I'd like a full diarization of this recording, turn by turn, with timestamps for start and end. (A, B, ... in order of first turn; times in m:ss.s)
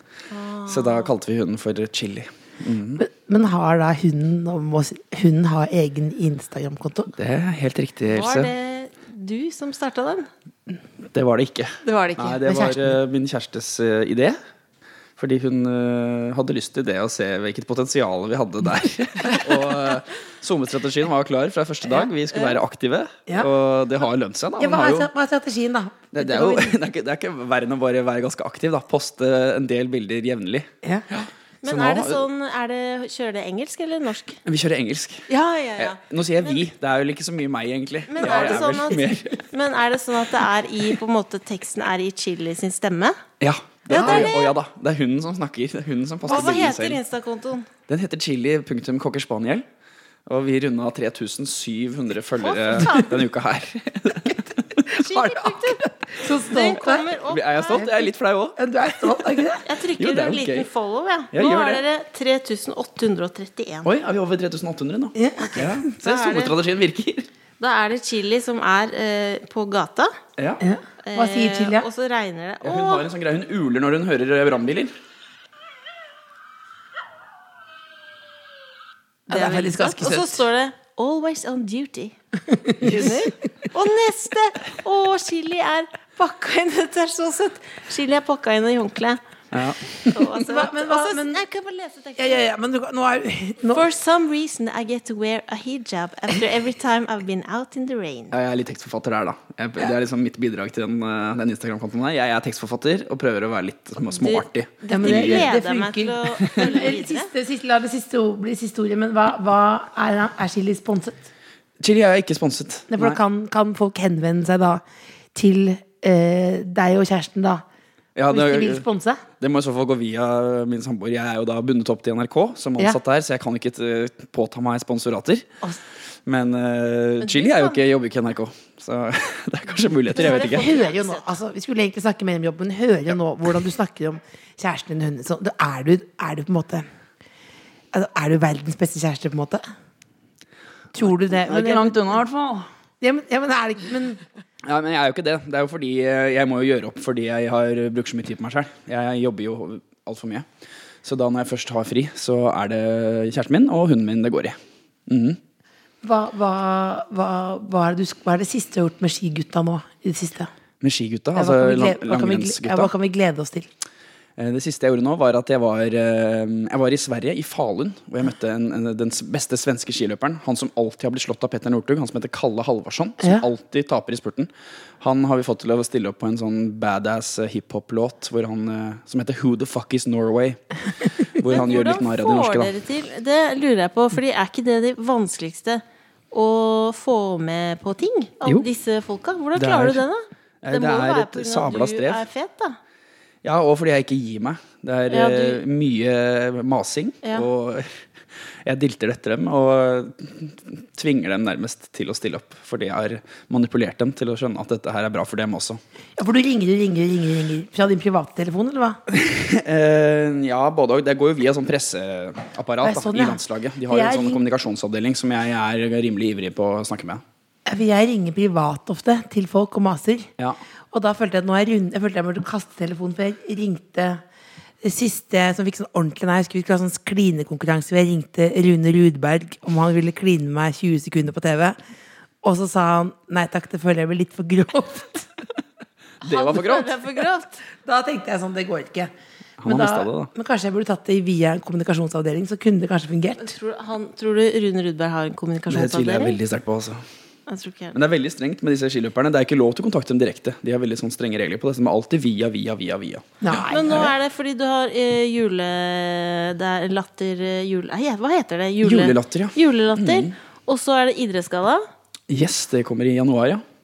0:00.3-0:01.1 A
0:00.7-0:03.0 B
0:03.0-0:07.1 C
0:07.2-0:08.5 B
0:08.1-0:10.3 A
0:11.1-0:14.4 B
0:11.8-0:12.4 A
0:12.4-0:13.0 C
0:15.2-0:25.1 B
0:24.6-0:26.7 C
0:26.1-0:32.2 B
0:31.6-0:34.4 A
0:34.4-0:39.4 B
0:35.3-0:36.6 A
0:38.1-0:43.2 A
0:38.2-0:38.6 C
0:43.4-0:47.0 B
0:43.9-0:44.5 A
0:43.9-0:44.3 C
0:46.3-0:47.7 A
0:46.3-0:46.6 C
0:47.9-0:49.6 B
0:50.3-0:54.9 B
0:52.4-0:53.2 A
0:54.9-0:57.9 A
0:55.0-0:57.1 C
0:57.3-0:59.2 B
0:58.6-0:59.6 C
0:59.6-1:03.9 A
1:00.0-1:00.7 B
1:01.3-1:01.8 B
1:03.8-1:07.3 B
1:05.1-1:05.8 C
1:05.9-1:06.5 A
1:07.6-1:10.1 A
1:10.4-1:10.6 B
1:10.6-1:11.8 C
1:11.0-1:13.0 A
1:12.6-1:14.9 B
1:19.3-1:20.4 C
1:19.3-1:22.2 A
1:22.5-1:23.2 C
1:22.8-1:29.2 A
1:22.9-1:23.2 B
1:29.5-1:30.0 B
1:29.9-1:32.4 A
1:30.3-1:31.4 C
1:32.2-1:33.8 C
1:33.7-1:38.3 A
1:38.3-1:45.5 B
1:44.1-1:47.3 A
1:44.9-1:51.3 C
1:46.5-1:46.7 B
1:51.8-1:53.2 B
1:52.9-1:54.8 C
1:55.3-1:57.6 C
1:58.2-1:58.8 B
1:58.3-1:59.2 C
1:59.4-2:05.4 B
2:06.2-2:10.7 B
2:07.2-2:07.8 A
2:10.1-2:11.3 A
2:10.1-2:16.8 C
2:17.9-2:19.6 C
2:20.9-2:22.2 C
2:21.0-2:22.7 B
2:23.0-2:24.2 C
2:24.6-2:30.4 B
2:31.0-2:35.4 B
2:36.0-2:40.5 C
2:40.8-2:42.9 B
2:41.3-2:43.7 C
2:44.4-2:54.5 B
2:55.0-3:02.7 B
3:01.4-3:12.8 A
3:09.5-3:10.0 B
3:10.6-3:12.2 B
3:13.4-3:18.0 B
3:15.1-3:15.6 A
3:18.6-3:25.8 B
3:26.2-3:29.0 C
3:29.1-3:37.2 B
3:32.8-3:34.4 C
3:37.6-3:40.3 C
3:40.9-3:44.2 C
3:44.8-3:51.8 C
3:52.4-3:55.4 C
3:56.2-3:57.6 A
3:56.2-3:57.1 B
3:57.8-3:59.1 C
3:59.6-4:00.3 B
3:59.6-4:03.5 C
4:03.4-4:06.4 A
4:05.7-4:07.0 B
4:07.5-4:08.0 A
4:07.9-4:14.0 B
4:13.4-4:14.1 C
4:13.7-4:21.8 A
4:18.8-4:20.3 B
4:22.3-4:23.6 B